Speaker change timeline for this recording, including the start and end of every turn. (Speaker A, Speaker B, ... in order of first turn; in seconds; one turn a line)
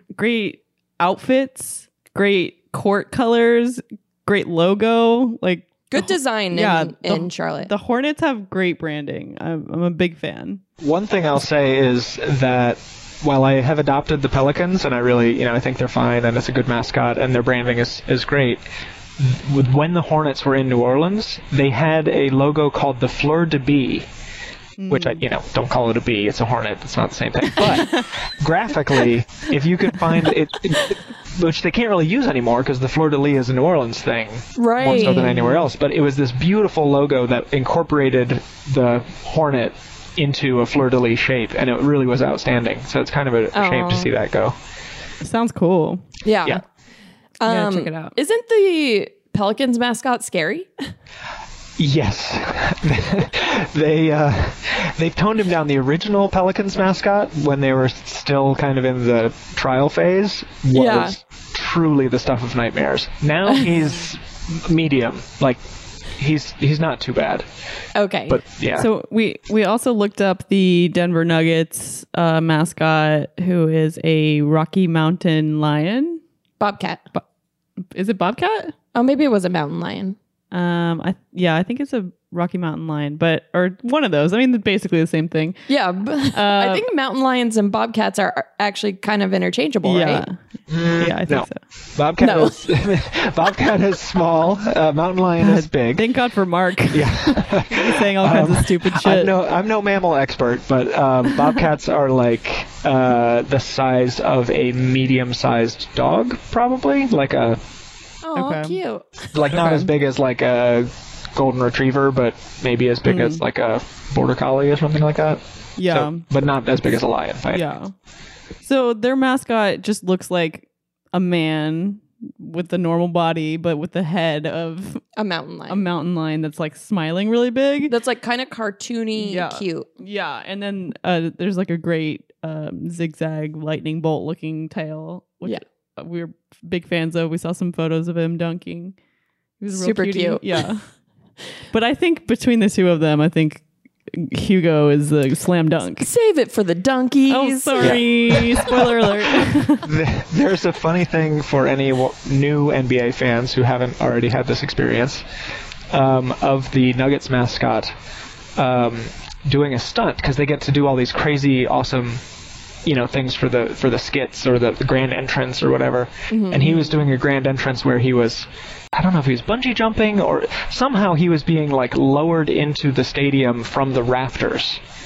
Speaker A: 0.1-10.6
Speaker B: 5.9-7.7
Speaker C: 10.8-18.6
Speaker C: 19.2-24.1
Speaker A: 24.8-25.2
Speaker C: 24.9-44.5
Speaker A: 27.6-28.0
Speaker B: 34.6-35.4
Speaker A: 34.9-35.6
Speaker B: 43.5-44.1
Speaker A: 45.2-46.0
Speaker B: 46.2-46.6
Speaker B: 47.4-50.7
Speaker A: 47.5-48.1
Speaker C: 51.8-65.6
Speaker B: 60.7-61.1
Speaker C: 66.1-67.5
Speaker B: 67.9-68.4
Speaker C: 68.3-68.9
Speaker A: 68.8-76.2
Speaker B: 76.6-77.0
Speaker A: 77.9-78.7
Speaker B: 78.9-80.2
Speaker A: 80.5-85.7
Speaker B: 85.7-90.2
Speaker A: 86.3-86.8
Speaker A: 89.8-90.4
Speaker C: 90.7-96.1
Speaker A: 91.0-91.6
Speaker B: 92.2-92.6
Speaker A: 95.4-99.3
Speaker C: 96.9-107.6
Speaker B: 108.2-109.1
Speaker A: 108.3-108.8
Speaker C: 109.3-117.6
Speaker A: 109.5-109.9
Speaker A: 113.0-113.4
Speaker A: 115.8-116.2
Speaker A: 117.5-117.9
Speaker A: 118.6-125.0
Speaker B: 125.2-125.9
Speaker A: 125.7-127.9
Speaker B: 127.9-129.9
Speaker A: 129.2-138.9
Speaker A: 139.6-140.9
Speaker B: 139.7-140.5
Speaker A: 141.7-146.1
Speaker B: 146.0-148.0
Speaker A: 147.3-149.8
Speaker C: 147.8-148.7
Speaker C: 149.8-155.2
Speaker C: 155.9-157.9
Speaker C: 158.6-162.2
Speaker C: 162.8-174.8
Speaker B: 166.3-166.9